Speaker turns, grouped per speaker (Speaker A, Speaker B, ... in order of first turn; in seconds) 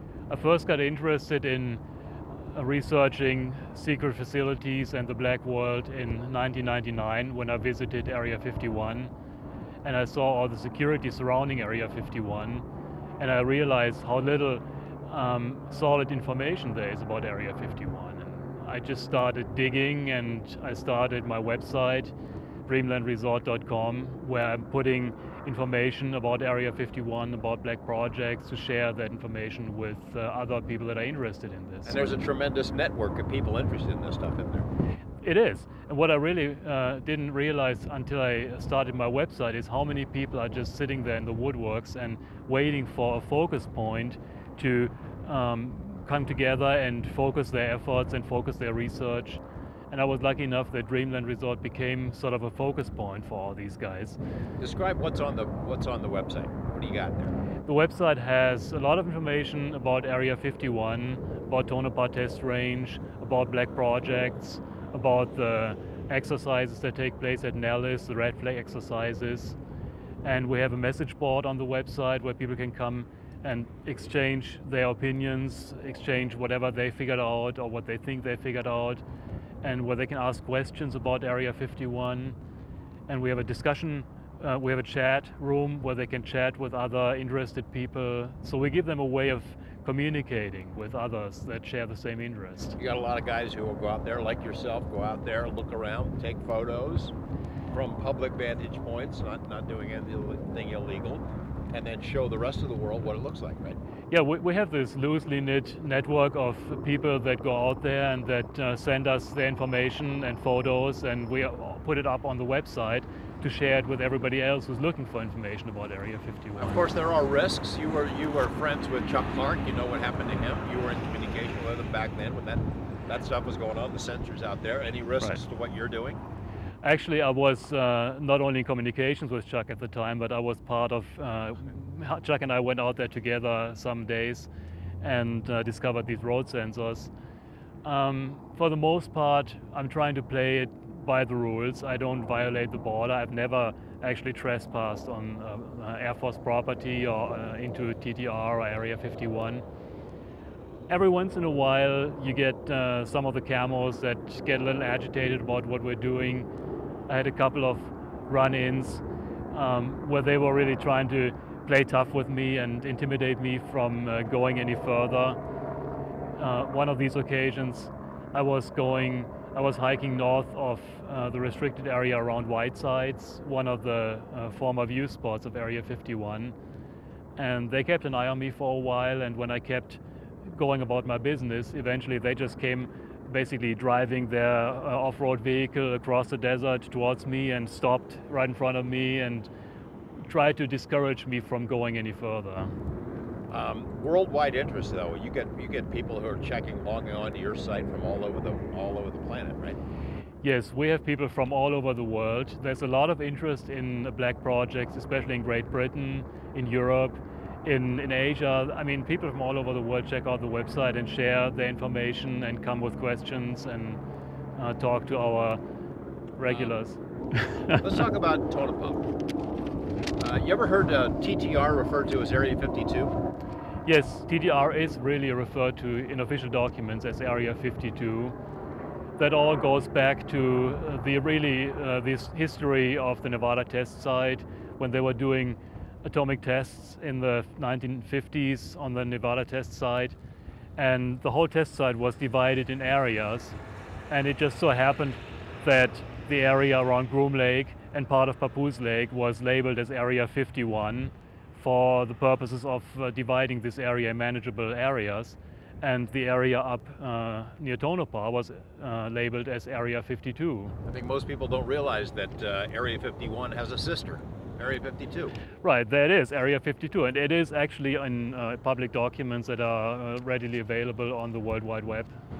Speaker A: 0.3-1.8, 2.5-9.1, 9.8-12.6, 13.2-22.1, 22.7-32.2, 35.2-54.2, 57.6-69.6, 70.2-79.0, 79.6-82.3, 83.1-92.8, 104.1-116.9, 126.8-134.5, 135.0-137.1, 137.8-149.6, 150.9-156.5, 157.1-165.4, 166.3-176.6, 177.4-189.5, 190.2-192.7, 200.4-214.0, 214.6-215.6, 216.4-217.8, 223.8-228.3, 229.2-240.2, 240.8-243.6, 244.1-260.8, 265.6-272.1
Speaker B: 31.9-34.7, 54.6-57.4, 92.8-97.1, 97.7-103.8, 116.6-126.2, 193.5-199.8, 216.5-216.7, 217.8-219.0, 220.2-223.2, 260.9-265.3